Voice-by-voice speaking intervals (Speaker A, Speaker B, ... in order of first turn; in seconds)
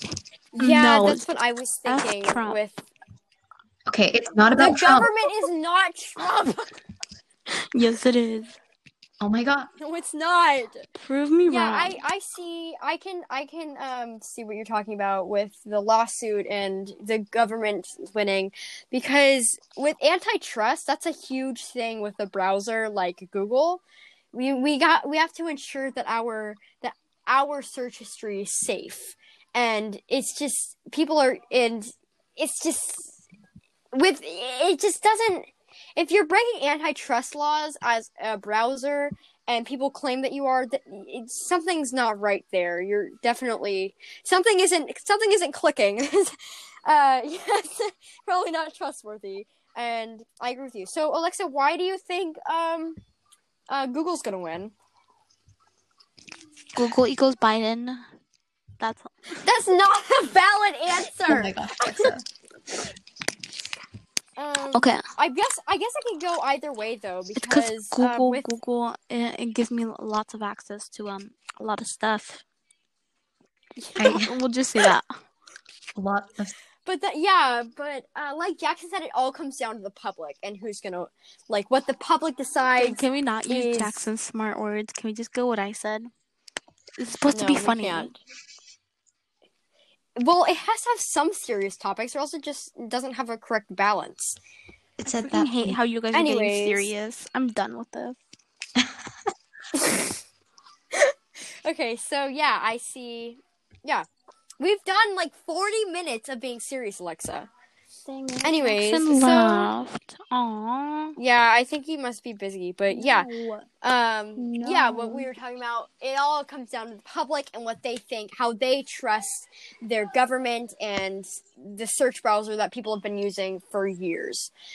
Speaker A: 0.5-2.9, 4.5-6.8, 9.8-10.9, 11.4-23.8, 24.3-33.2, 33.9-53.0, 53.7-54.7, 59.4-62.1, 64.4-68.5, 73.8-74.2, 76.8-84.0, 87.3-88.2, 90.2-94.4, 96.1-96.9, 101.6-104.0, 104.6-107.5, 108.4-109.7, 111.2-113.3, 113.8-124.5
Speaker B: 0.6-1.3, 1.9-2.6, 7.7-8.5, 10.9-12.0, 56.7-58.0, 58.8-59.5, 64.7-65.0, 67.3-72.4, 74.0-75.1, 82.8-86.1, 87.0-88.1, 95.1-98.2, 108.0-111.2, 112.9-113.7, 114.4-115.3
Speaker C: 3.9-5.1, 9.2-9.7, 61.3-62.2, 74.0-74.3, 75.9-76.5, 95.0-95.8